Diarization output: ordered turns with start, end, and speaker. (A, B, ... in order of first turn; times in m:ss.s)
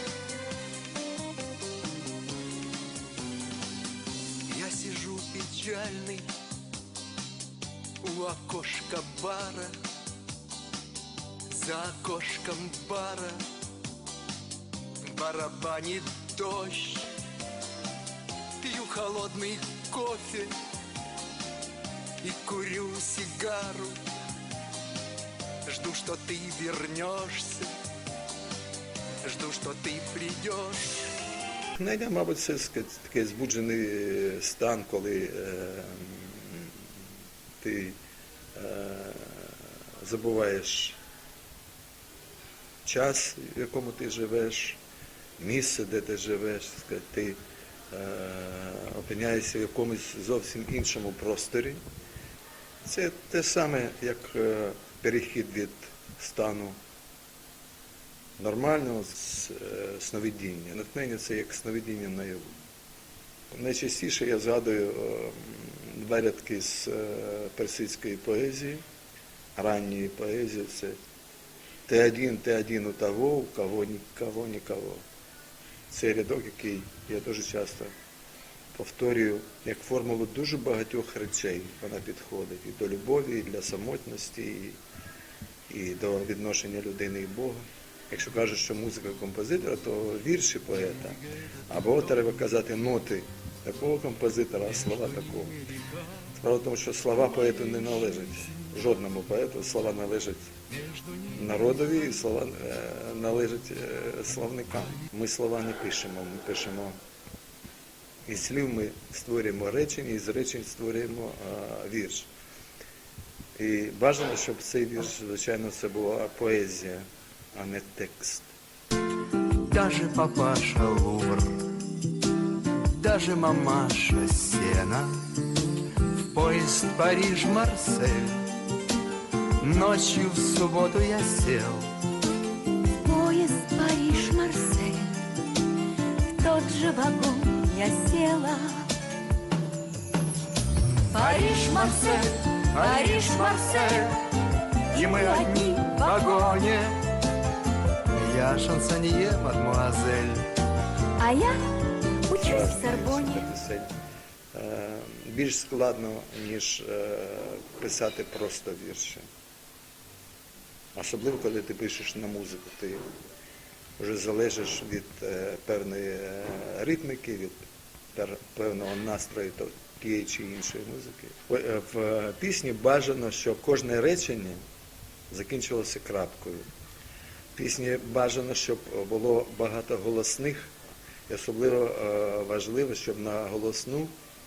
0:04.5-0:06.3 A
0:08.0-0:09.7 A
0:11.5-0:13.4 A
0:15.0-0:17.1 A
0:18.6-0:20.5 A
0:22.2-0:24.0 A
0:25.7-0:27.7 A
0:29.2-0:31.0 A
0:31.8-0:36.8 B
0:37.6-0:38.0 B
0:38.6-0:41.0 B
0:42.8-0:44.8 B
0:45.4-0:47.4 B
0:47.9-0:51.8 B
0:52.8-0:56.8 B
0:58.4-1:02.6 B
1:03.5-1:08.8 B
1:09.6-1:11.0 B
1:11.9-1:15.0 B
1:15.9-1:17.9 B
1:18.7-1:24.8 B
1:25.7-1:35.7 B
1:36.3-1:40.6 B
1:41.2-1:47.0 B
1:48.3-1:52.3 B
1:53.6-1:58.6 B
1:59.7-2:01.6 A
2:02.9-2:05.2 A
2:06.3-2:08.4 A
2:09.6-2:11.9 A
2:13.0-2:15.1 C
2:16.3-2:18.9 C
2:21.1-2:24.0 C
2:21.5-2:22.1 A
2:22.8-2:24.1 A
2:24.9-2:26.6 C
2:24.9-2:27.0 A
2:28.2-2:30.4 A
2:31.2-2:31.6 C
2:32.2-2:33.5 C
2:32.4-2:33.9 B
2:34.5-2:39.3 B
2:41.0-2:43.0 B
2:44.0-2:54.6 B
2:55.3-2:56.7 B
2:57.6-3:00.8 B
3:01.3-3:04.2 B